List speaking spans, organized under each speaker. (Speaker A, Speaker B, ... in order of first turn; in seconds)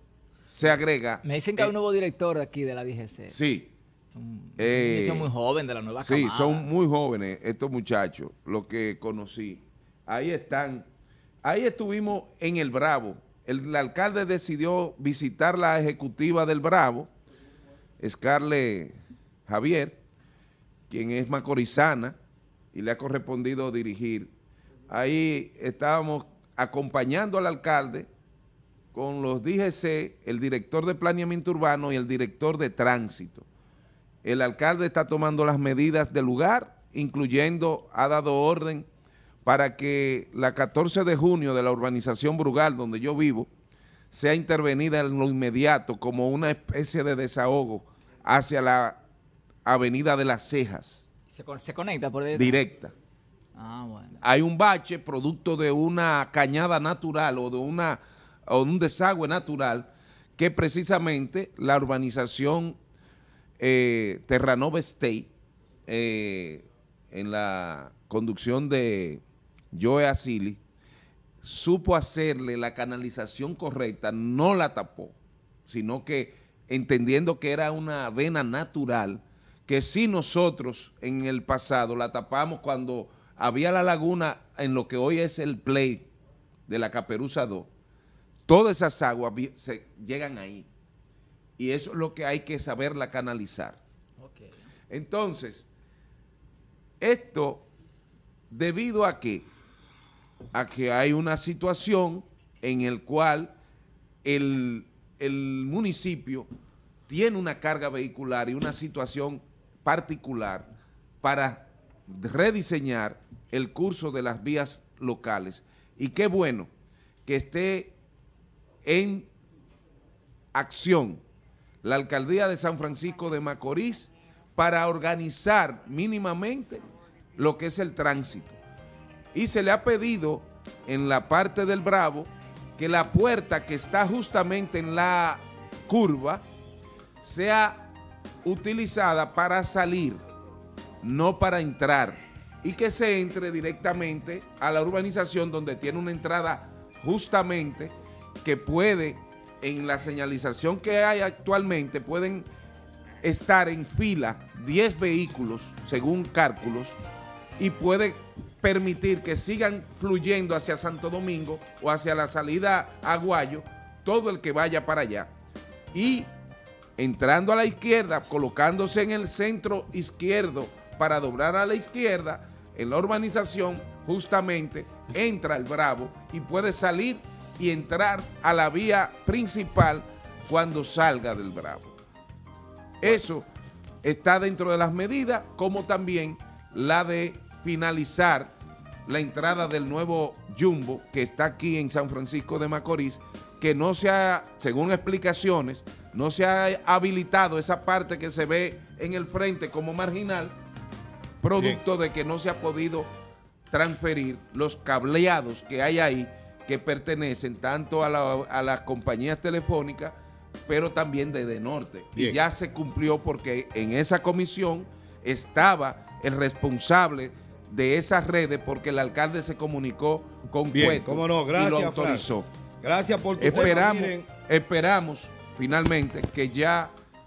Speaker A: 0.5-1.7, 3.3-3.7, 4.6-5.3, 6.0-10.8, 11.4-17.1, 18.0-18.9, 19.5-20.0, 20.9-22.1, 22.7-24.3, 24.9-28.1, 28.9-33.5, 34.2-38.9, 39.4-43.5, 44.1-49.0, 49.6-51.0, 52.3-52.9, 54.2-62.8, 63.6-65.3, 65.9-70.6, 71.4-86.1, 86.7-87.7, 88.5-90.7, 91.6-93.8, 94.9-95.7, 97.0-97.7, 98.5-99.5, 100.5-103.5, 104.2-106.5, 107.1-110.7, 111.2-116.7, 117.2-118.0, 118.8-119.3, 120.5-121.2, 121.8-126.8, 127.4-128.6, 129.3-136.4, 137.2-137.9, 138.4-140.2, 141.0-152.4, 153.2-156.9, 157.6-165.3, 165.9-166.3, 167.0-181.9, 183.0-183.5, 184.0-188.5, 189.1-200.5, 201.4-203.1, 203.7-210.2, 210.7-222.5, 223.4-226.9
Speaker B: 1.2-3.3, 4.1-6.7, 51.3-52.6, 53.5-54.2, 94.2-94.5
Speaker C: 220.7-224.3